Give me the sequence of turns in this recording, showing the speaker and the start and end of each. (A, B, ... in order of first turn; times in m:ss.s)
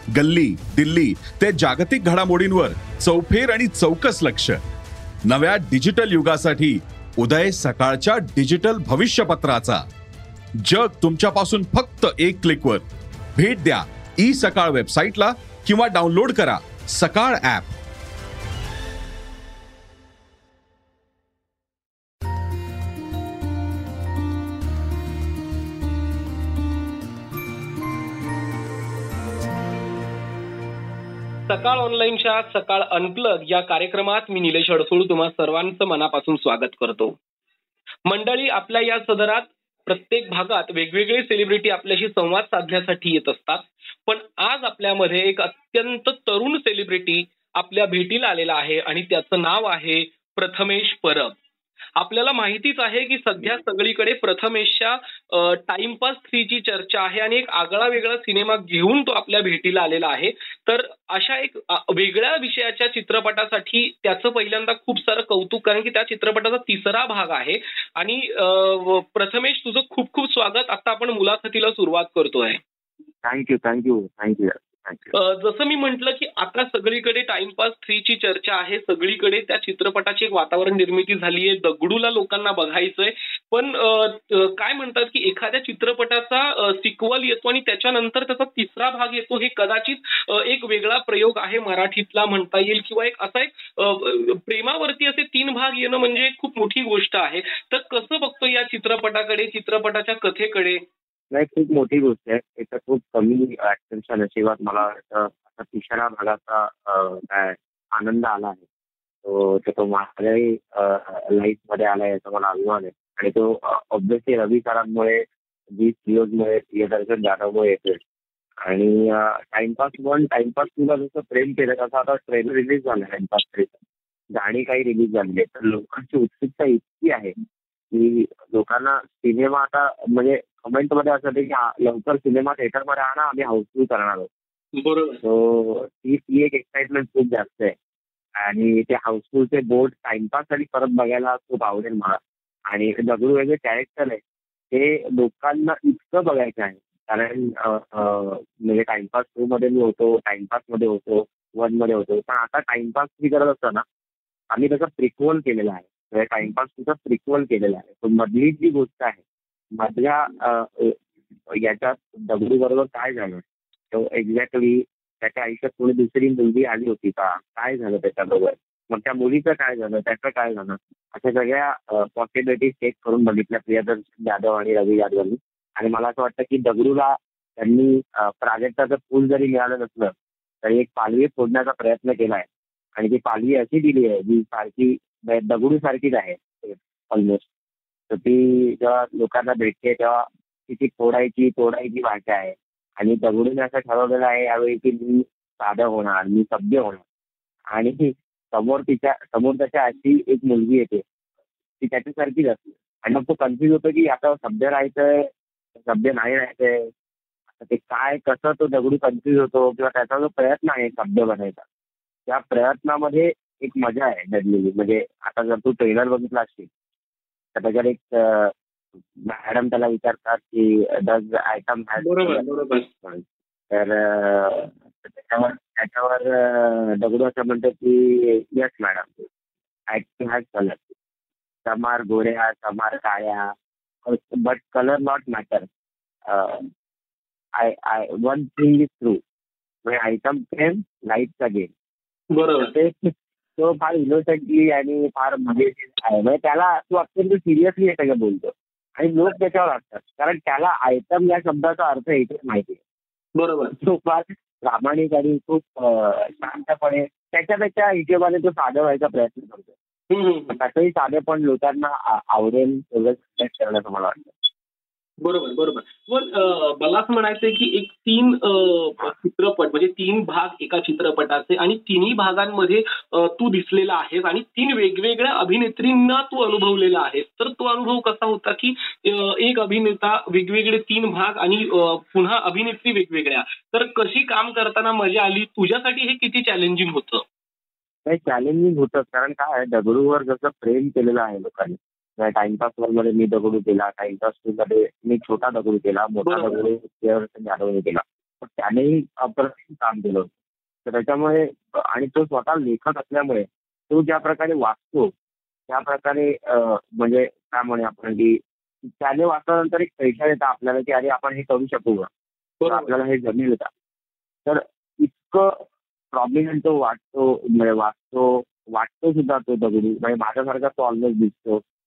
0:00.1-0:04.6 A
0:05.3-0:09.8 A
0:10.6-0:17.7 A
0:31.5-0:37.2 B
0:38.1-0:51.4 B
0:52.0-1:12.6 B
1:13.2-1:15.1 C
1:15.1-1:40.8 B
1:41.3-1:48.6 C
1:49.2-1:58.0 C
1:58.6-2:03.7 C
2:04.3-2:07.3 C
2:07.9-2:14.3 C
2:14.8-2:15.2 B
2:15.2-2:17.8 C
2:18.4-2:33.8 C
2:34.5-2:39.2 C
2:39.7-3:07.5 C
3:08.1-3:17.0 C
3:17.7-3:21.0 C
3:21.8-3:26.9 C
3:27.6-3:31.6 C
3:32.3-3:36.7 C
3:37.6-3:38.5 C
3:39.2-3:42.5 C
3:42.0-3:42.9 B
3:43.0-3:49.2 C
3:49.9-3:50.9 C
3:51.6-3:53.5 C
3:54.1-3:55.7 C
3:56.3-3:56.7 C
3:57.6-3:59.2 C
3:59.8-4:01.7 C
4:02.3-4:02.7 B
4:02.6-4:12.8 C
4:13.4-4:13.8 B
4:13.7-4:19.7 C
4:20.1-4:20.6 B
4:20.5-4:24.3 C
4:25.2-4:47.2 B
4:48.1-5:00.3 C
4:56.2-4:56.6 B
5:00.9-5:05.1 C
5:05.7-5:12.1 C
5:12.6-5:12.9 B
5:12.7-5:13.7 C
5:14.4-5:21.6 C